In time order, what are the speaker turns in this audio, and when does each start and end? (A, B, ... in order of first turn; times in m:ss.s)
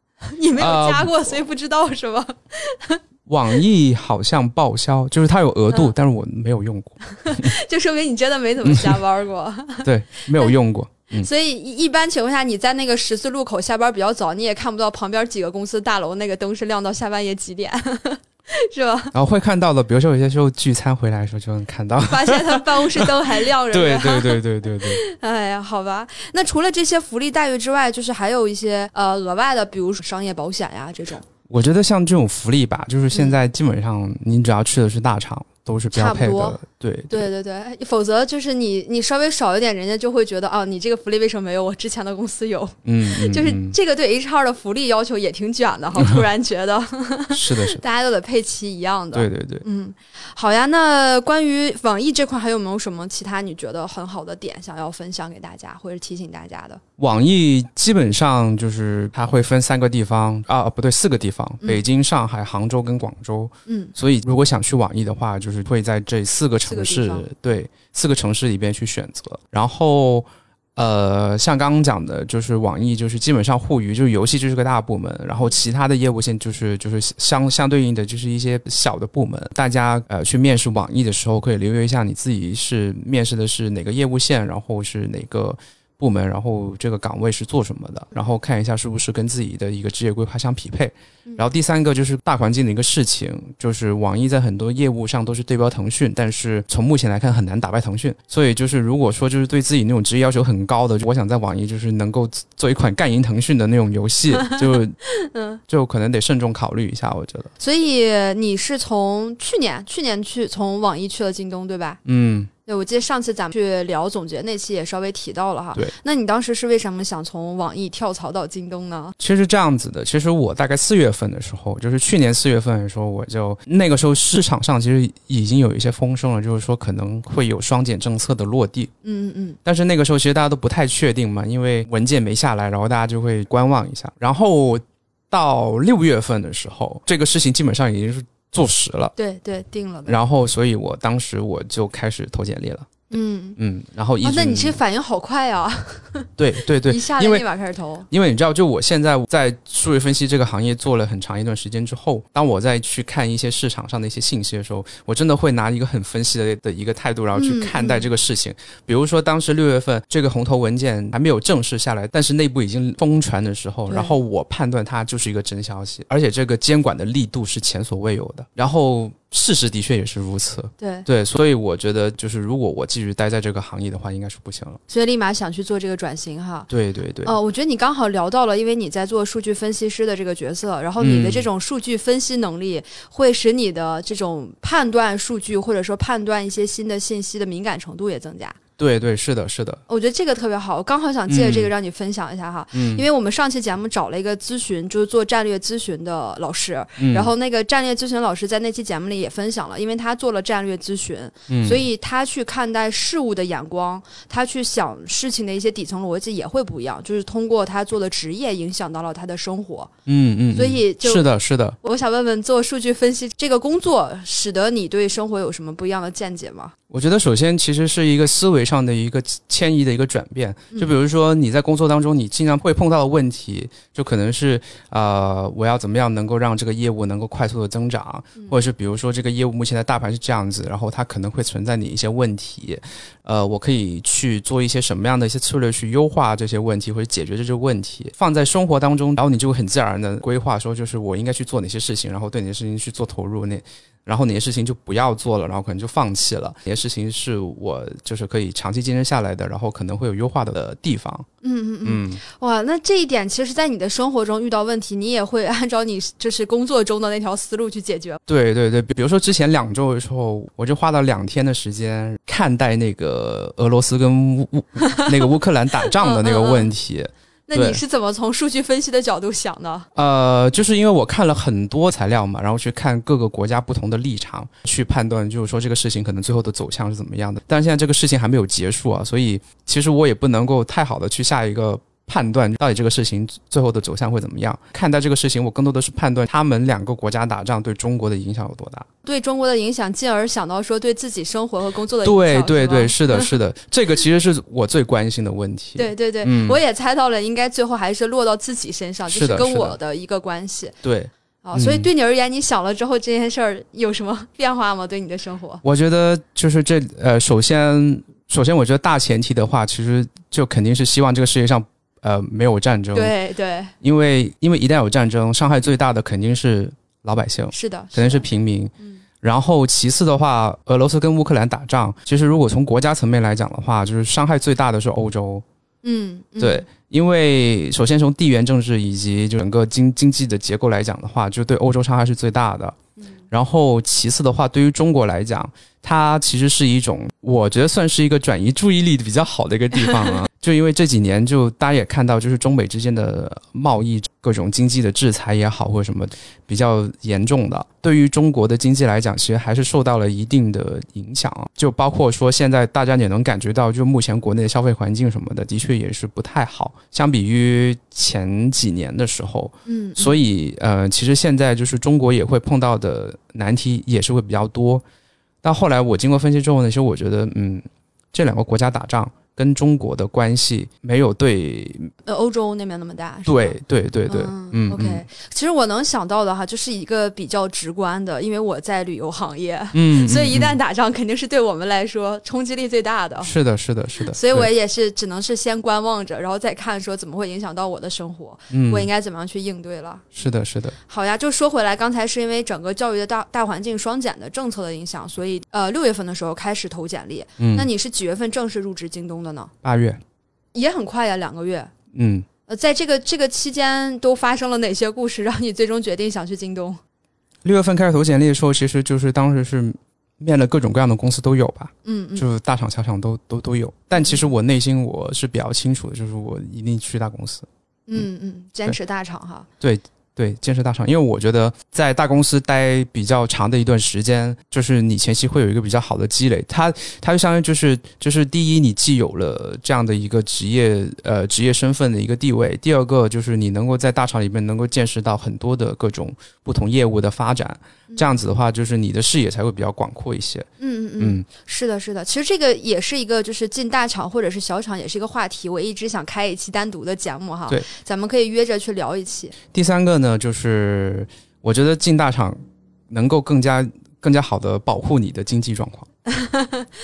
0:00.3-0:03.0 A
0:00.6-0:01.4 B
0:03.3-0:07.5 B
0:07.1-0:10.5 A
0:08.6-0:09.0 B
0:09.8-0:11.3 B
0:11.2-0:19.1 A
0:19.1-0:25.0 B
0:22.0-0:31.3 A
0:31.5-0:37.3 B
0:35.9-0:36.6 A
0:37.1-0:56.8 A
0:42.8-0:43.8 B
0:47.3-0:47.8 B
0:49.1-0:49.6 B
0:57.0-1:45.0 B
1:03.7-1:03.9 A
1:06.6-1:07.3 A
1:44.4-1:45.6 A
1:45.7-1:47.5 B
1:47.6-1:52.0 A
1:52.0-1:52.5 B
1:52.7-1:59.2 A
1:59.2-2:08.9 B
2:09.0-2:09.6 A
2:09.6-2:19.1 B
2:19.2-2:20.2 A
2:20.1-2:23.0 B
2:23.1-2:23.6 A
2:23.6-2:24.8 B
2:24.2-2:26.3 A
2:26.4-2:27.5 B
2:26.8-2:28.1 A
2:28.1-2:54.8 B
2:37.4-2:38.1 A
2:43.9-2:44.2 A
2:50.8-2:51.1 A
2:54.9-2:56.7 A
2:56.7-2:57.4 B
2:57.2-3:08.6 A
3:01.0-3:01.5 B
3:08.8-3:09.8 B
3:09.9-3:29.9 A
3:11.3-3:11.7 B
3:12.7-3:13.0 B
3:17.0-3:17.3 B
3:21.5-3:21.8 B
3:30.1-3:31.8 B
3:30.5-3:31.3 A
3:31.8-3:36.7 A
3:36.9-4:11.3 B
4:11.4-4:18.2 A
4:11.8-4:12.2 B
4:18.3-4:27.8 B
4:24.8-4:25.3 A
4:25.8-4:26.7 A
4:27.5-4:29.9 A
4:30.0-4:48.9 B
4:49.0-4:53.3 A
4:52.0-4:56.6 B
4:55.8-5:00.8 A
4:59.1-4:59.8 B
5:00.8-5:01.9 B
5:01.4-5:05.6 A
5:05.6-5:13.1 B
5:12.9-5:13.7 A
5:13.8-5:25.4 B
5:17.5-5:18.3 A
5:25.8-5:26.7 A
5:26.4-5:32.8 B
5:33.3-6:04.8 B
5:39.9-5:40.2 A
5:59.7-6:00.2 A
6:05.4-6:11.9 B
6:12.1-6:23.3 A
6:13.3-6:15.0 B
6:19.7-6:20.6 B
6:23.2-6:24.5 B
6:24.1-6:30.1 A
6:28.5-6:28.9 B
6:30.2-6:30.8 B
6:30.9-6:39.5 A
6:37.4-6:37.7 B
6:39.6-6:40.0 B
6:40.5-6:41.7 A
6:41.9-6:42.3 B
6:42.5-6:46.8 A
6:47.4-6:58.0 B
6:51.8-6:52.3 A
6:54.0-6:54.3 A
6:57.9-6:59.5 A
6:59.6-7:20.5 B
7:20.6-7:29.4 A
7:21.0-7:21.3 B
7:29.5-7:32.4 B
7:32.9-7:35.9 B
7:36.1-7:36.7 A